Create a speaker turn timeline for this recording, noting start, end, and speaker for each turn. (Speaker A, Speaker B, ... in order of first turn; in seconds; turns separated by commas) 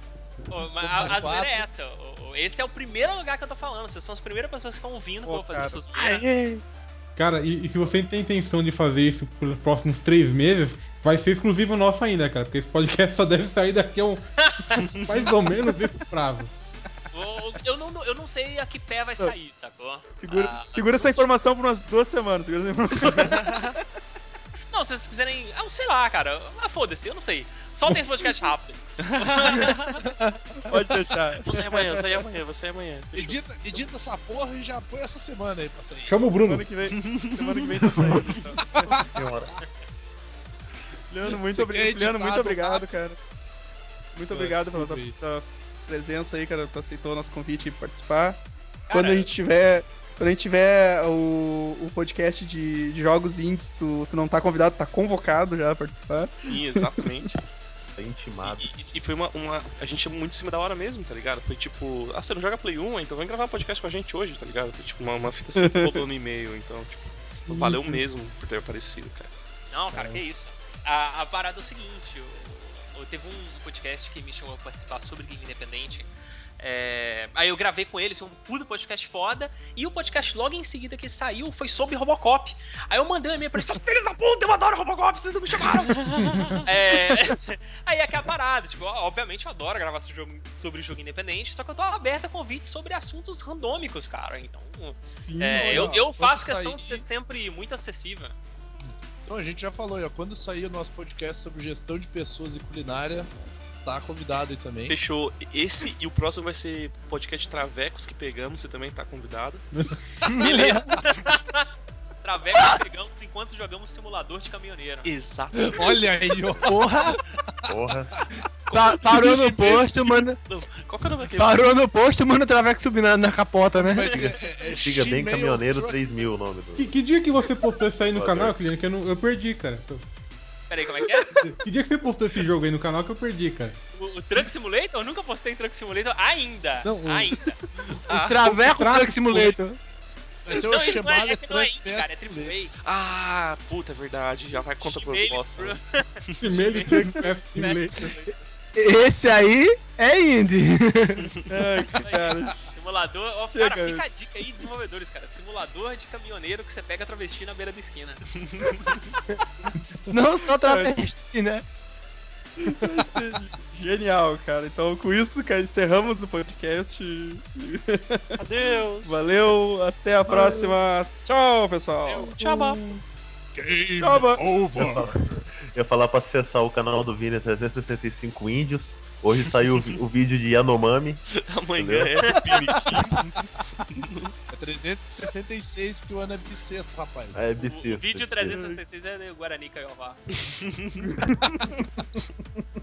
Speaker A: 0.5-6.2, Speaker B: 0.8-1.7, Speaker C: 5.2-5.8, Speaker D: 6.0-6.6, Speaker E: 7.2-14.3, Speaker A: 14.3-14.8, Speaker F: 14.7-15.3, Speaker E: 14.9-16.5, Speaker A: 17.1-21.3, Speaker C: 20.2-23.8, Speaker F: 23.1-23.7, Speaker A: 24.7-30.0, Speaker F: 29.0-30.0, Speaker C: 30.6-32.0, Speaker B: 30.7-31.1, Speaker F: 31.4-33.4, Speaker B: 33.1-36.2, Speaker E: 36.1-36.7, Speaker C: 36.4-39.0, Speaker F: 36.9-37.6, Speaker E: 37.9-38.3, Speaker B: 38.7-39.5, Speaker G: 39.1-39.6, Speaker C: 41.1-43.2, Speaker B: 41.3-42.9, Speaker C: 44.1-57.3, Speaker B: 44.3-45.1, Speaker A: 48.9-49.3, Speaker F: 56.4-57.4, Speaker G: 58.0-58.7, Speaker F: 58.4-69.3, Speaker C: 65.6-66.0, Speaker C: 67.5-68.0, Speaker A: 69.7-86.0, Speaker F: 85.6-86.7, Speaker A: 86.7-98.3, Speaker C: 95.2-96.0, Speaker B: 95.6-97.1, Speaker B: 98.8-103.3, Speaker B: 103.8-105.0, Speaker F: 104.9-109.7, Speaker E: 109.7-110.0, Speaker D: 110.3-110.5, Speaker A: 110.4-111.7, Speaker B: 110.6-110.8, Speaker A: 112.2-115.1, Speaker F: 115.0-116.0, Speaker B: 115.6-117.0, Speaker D: 116.6-117.2, Speaker G: 117.7-118.1, Speaker F: 118.7-121.8, Speaker D: 118.7-120.4, Speaker D: 121.3-124.3, Speaker B: 123.7-126.3, Speaker G: 124.8-127.0, Speaker E: 126.8-130.0, Speaker G: 128.1-128.6, Speaker A: 130.7-131.4, Speaker E: 131.3-133.8, Speaker A: 133.9-137.6, Speaker F: 137.8-138.5, Speaker D: 138.1-139.8, Speaker E: 138.6-139.6, Speaker B: 140.5-142.5, Speaker A: 140.5-142.7, Speaker F: 142.8-146.4, Speaker A: 144.8-148.4, Speaker E: 146.4-148.2, Speaker D: 148.8-151.3, Speaker F: 151.2-151.5, Speaker C: 151.5-152.5, Speaker A: 152.0-158.2, Speaker C: 153.5-154.1, Speaker F: 158.3-159.1, Speaker D: 160.1-161.7, Speaker C: 160.6-160.9, Speaker C: 162.6-168.4, Speaker F: 168.4-169.3, Speaker C: 169.0-172.8, Speaker B: 170.3-170.7, Speaker F: 172.1-172.9, Speaker B: 173.6-175.1, Speaker C: 174.0-174.4, Speaker G: 174.7-181.2, Speaker F: 179.5-180.0, Speaker F: 181.3-184.3, Speaker G: 181.8-182.3, Speaker B: 184.5-187.4, Speaker G: 187.3-188.6, Speaker A: 187.6-190.2, Speaker C: 188.5-188.8, Speaker F: 190.3-191.1, Speaker C: 191.0-191.8